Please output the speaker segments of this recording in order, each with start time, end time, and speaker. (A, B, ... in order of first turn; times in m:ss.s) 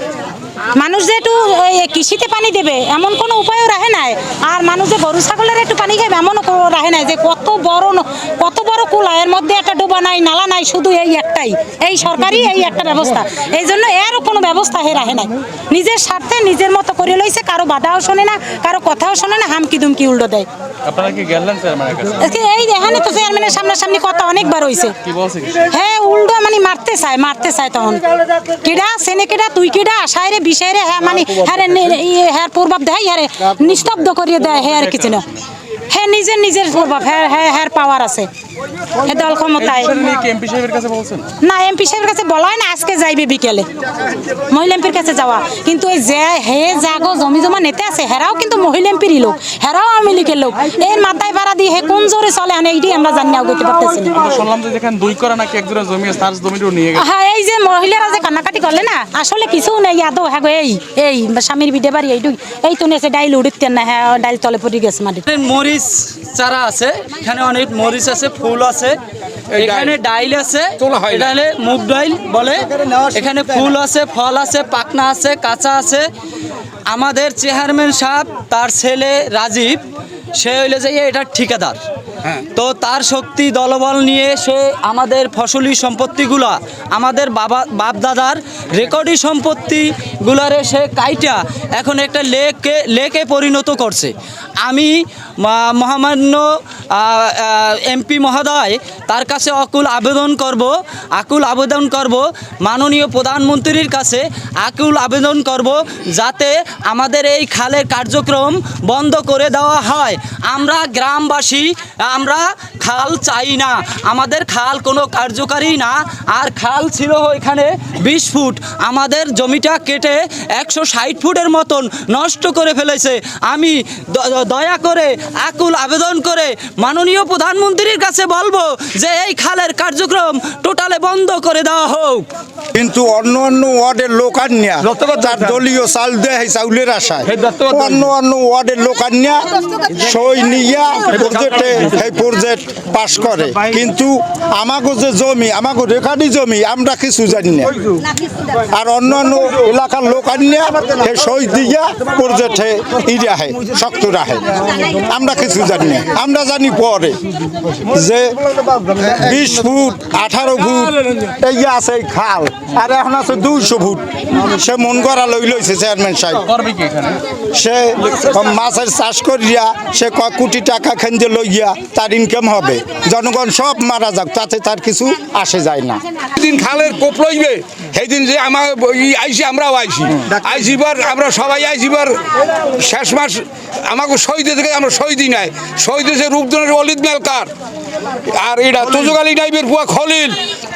0:00.7-0:20.5 A
0:20.9-0:22.2 B
0:22.2-0:25.0 A
0:25.1-0:25.6 B
0:25.6-0:35.3 A
0:35.9-0:38.3 A
0:39.0-0:40.0 A
0:39.9-0:41.3 B
0:41.4-0:43.7 A
0:44.2-0:54.2 A
0:54.2-0:56.9 B
0:56.9-1:05.3 A
1:05.3-1:09.0 C
1:09.5-1:16.1 C
1:09.6-1:09.9 D
1:10.8-1:11.3 D
1:16.9-1:19.8 C
1:20.3-1:21.8 C
1:22.5-2:12.3 C
2:12.7-2:27.8 E
2:17.4-2:17.9 B
2:28.6-2:37.2 E
2:37.7-2:46.5 E
2:46.6-2:47.2 B
2:47.5-2:56.0 E
2:56.4-3:02.2 D
3:02.8-3:07.5 D
3:08.3-3:10.4 D